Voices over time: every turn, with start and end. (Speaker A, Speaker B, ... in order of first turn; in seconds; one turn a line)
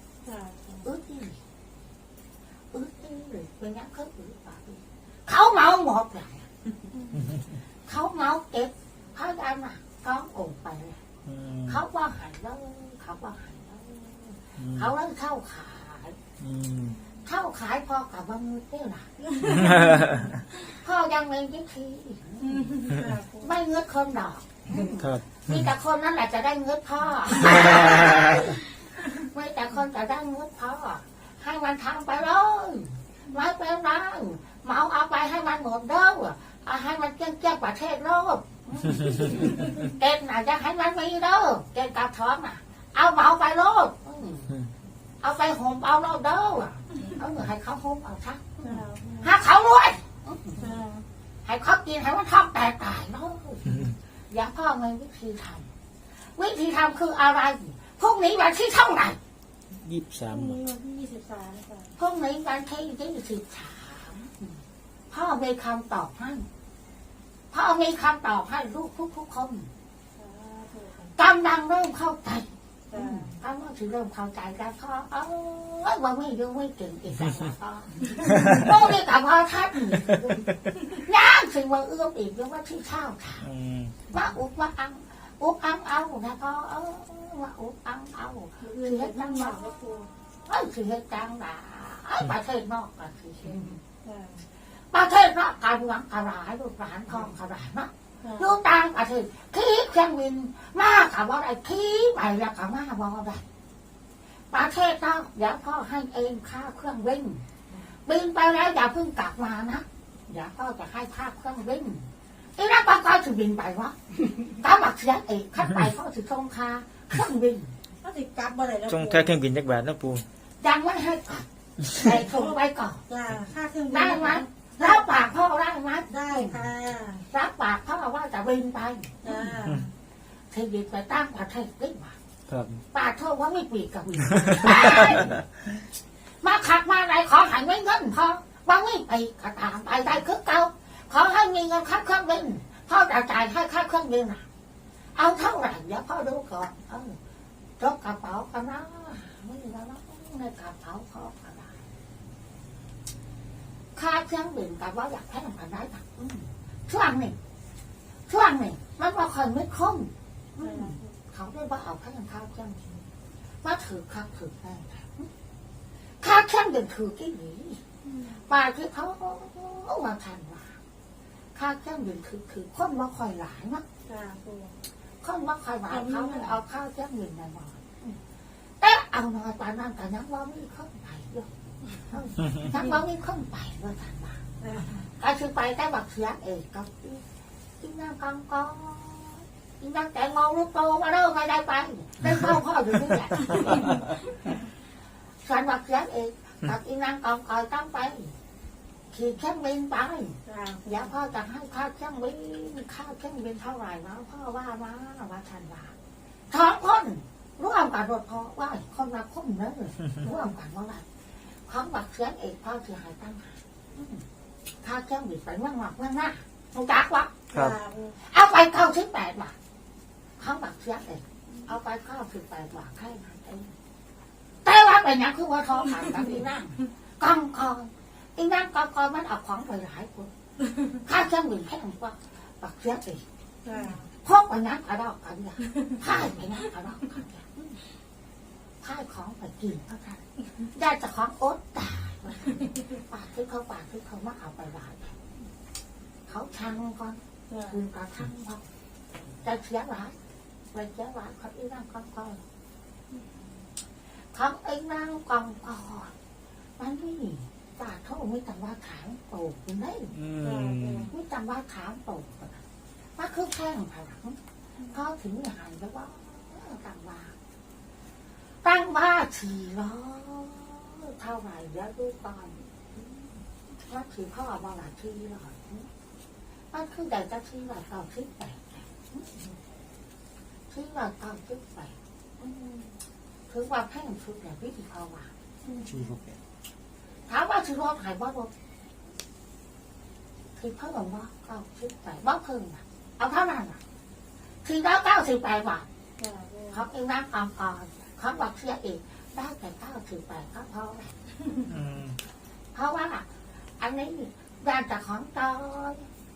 Speaker A: 0.2-0.9
Speaker B: 0.8-1.4
Speaker B: 2.7-6.5
Speaker A: 7.0-7.3
Speaker B: 7.8-11.0
Speaker C: 11.2-11.8
Speaker B: 11.7-16.2
Speaker C: 14.6-14.9
Speaker C: 16.4-17.0
Speaker B: 17.2-19.1
Speaker A: 19.3-20.1
Speaker C: 19.5-20.3
Speaker B: 20.6-22.8
Speaker A: 22.4-23.5
Speaker B: 23.4-44.5
Speaker C: 24.9-25.7
Speaker B: 45.2-50.6
Speaker A: 48.6-49.3
Speaker A: 50.6-51.0
Speaker B: 51.4-55.7
Speaker B: 56.4-59.2
Speaker C: 59.7-60.6
Speaker A: 60.3-61.9
Speaker B: 62.0-64.5
Speaker B: 65.1-66.5
Speaker B: 67.5-69.7
Speaker A: 70.2-71.1
Speaker B: 71.2-83.5
Speaker A: 72.9-73.3
Speaker C: 83.4-84.0
Speaker B: 84.1-93.8
Speaker A: 88.6-90.1
Speaker A: 94.0-94.5
Speaker B: 94.9-103.4
Speaker A: 98.2-98.5
Speaker B: 104.5-107.4
Speaker B: 108.0-117.7
Speaker A: 118.0-119.3
Speaker C: 118.9-120.2
Speaker B: 120.6-123.0
Speaker A: 122.1-122.5
Speaker A: 123.1-124.5
Speaker B: 123.9-126.6
Speaker A: 126.1-127.2
Speaker B: 127.3-129.2
Speaker A: 129.2-129.9
Speaker B: 130.5-132.1
Speaker C: 132.5-132.8
Speaker B: 132.9-135.3
Speaker C: 135.0-135.4
Speaker B: 136.4-144.4
Speaker B: 145.1-147.2
Speaker B: 147.8-151.7
Speaker B: 153.9-157.4
Speaker B: 158.3-162.9
Speaker A: 160.6-161.1
Speaker B: 163.6-165.3
Speaker B: 166.2-167.8
Speaker A: 168.0-168.4
Speaker B: 168.5-170.7
Speaker B: 171.5-173.8
Speaker A: 174.1-174.7
Speaker B: 175.2-178.2
Speaker A: 175.9-176.6
Speaker B: 178.8-181.5
Speaker B: 182.0-184.4
Speaker A: 184.6-185.1
Speaker B: 185.2-187.2
Speaker B: 187.8-194.0
Speaker B: 195.4-198.3
Speaker B: 199.1-205.9
Speaker A: 200.4-201.1
Speaker B: 206.5-211.0
Speaker A: 210.2-210.5
Speaker B: 211.7-214.2
Speaker B: 214.8-217.3
Speaker A: 217.5-218.2
Speaker B: 218.3-219.5
Speaker B: 220.4-223.7
Speaker B: 224.6-230.3
Speaker B: 230.9-233.2
Speaker A: 233.6-234.1
Speaker B: 234.2-237.7
Speaker B: 238.8-245.2
Speaker B: 246.3-248.6
Speaker A: 247.5-247.8
Speaker B: 249.4-250.2
Speaker B: 250.7-252.4
Speaker A: 253.1-253.5
Speaker B: 254.3-256.1
Speaker B: 256.8-260.1
Speaker C: 260.1-261.1
Speaker A: 260.4-261.1
Speaker B: 261.1-262.6
Speaker B: 263.2-264.4
Speaker B: 264.9-267.3
Speaker B: 268.6-273.3
Speaker B: 273.8-275.9
Speaker B: 276.7-279.5
Speaker B: 280.7-282.9
Speaker B: 283.5-285.3
Speaker A: 285.6-286.1
Speaker C: 285.9-286.4
Speaker B: 287.3-288.5
Speaker B: 290.6-293.8
Speaker B: 294.6-295.9
Speaker A: 296.2-296.8
Speaker B: 296.7-301.1
Speaker C: 301.7-302.1
Speaker B: 302.7-303.3
Speaker B: 303.8-306.1